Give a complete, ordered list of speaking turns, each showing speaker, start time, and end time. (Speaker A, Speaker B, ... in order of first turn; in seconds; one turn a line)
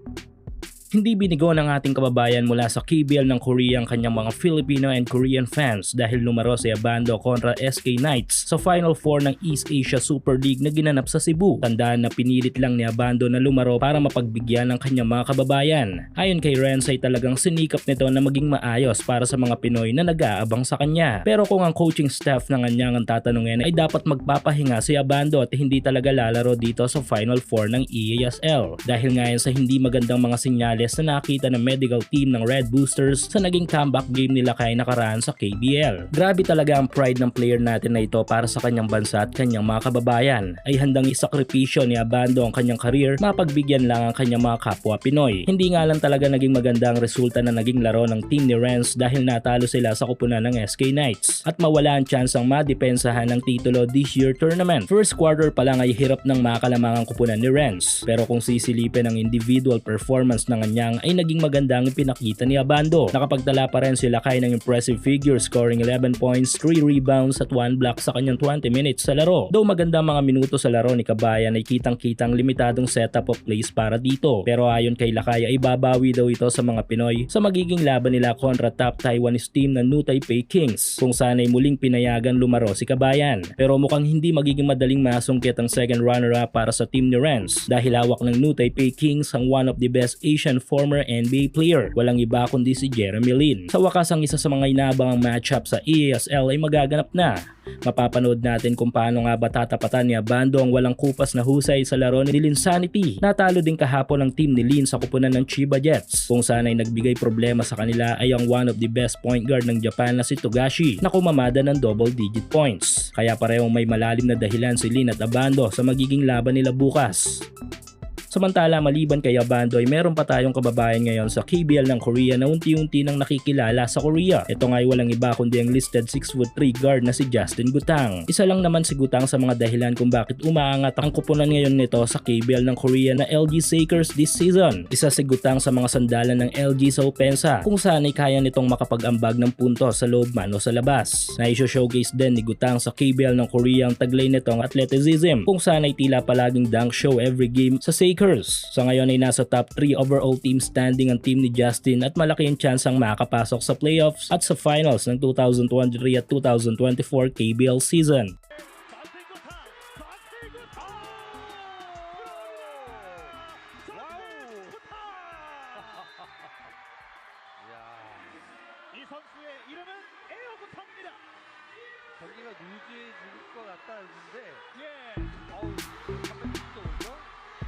Speaker A: 0.9-117.5
Speaker A: 118.3-158.3
Speaker B: 158.6-161.5
Speaker C: 161.1-163.3
Speaker B: 163.6-166.1
Speaker C: 163.9-164.8
Speaker C: 167.6-168.5
Speaker B: 168.9-171.2
Speaker C: 172.2-174.7
Speaker B: 174.7-175.4
Speaker C: 175.4-177.3